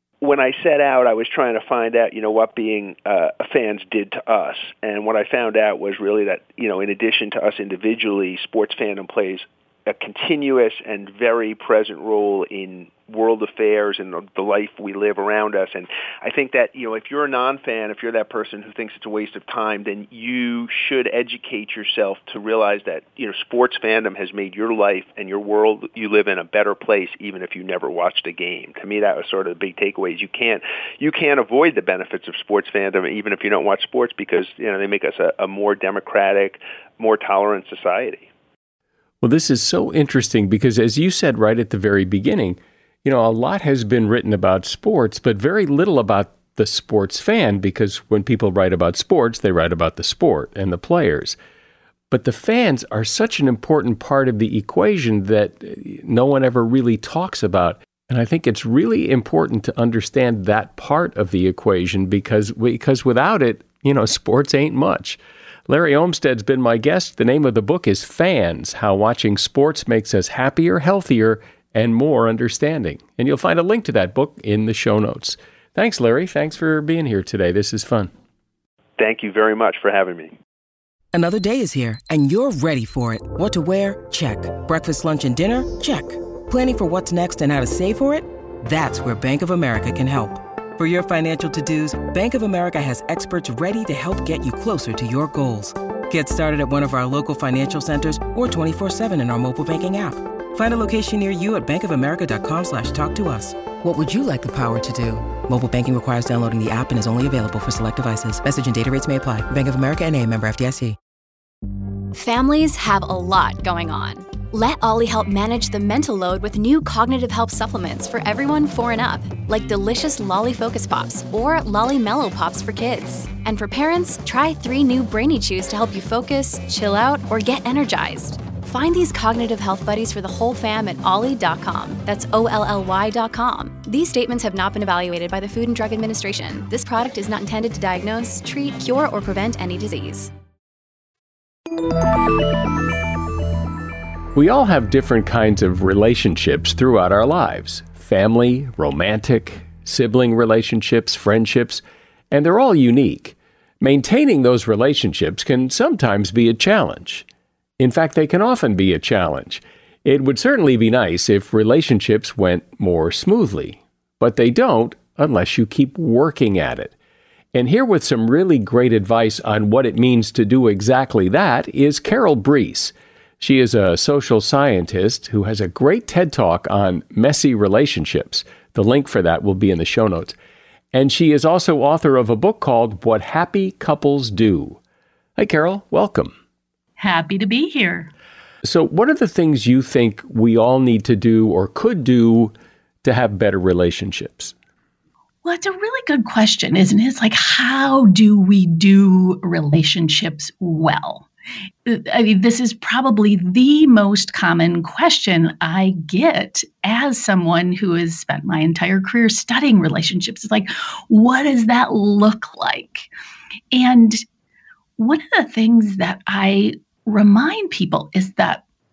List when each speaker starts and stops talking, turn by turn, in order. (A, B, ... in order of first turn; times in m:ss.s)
0:00.2-0:38.3 A
0:39.2-0:51.4 B
0:52.1-1:18.1 B
1:19.0-1:20.4 A
1:21.1-1:51.0 C
1:52.1-2:20.3 D
2:24.4-2:37.3 B
2:37.8-2:47.0 B
2:47.5-3:00.4 B
3:00.9-3:04.8 B
3:05.4-3:06.3 B
3:07.0-3:08.1 E
3:08.6-3:14.6 B
3:15.4-3:21.3 E
3:21.9-3:33.1 E
3:33.7-3:34.2 E
3:35.0-3:38.6 E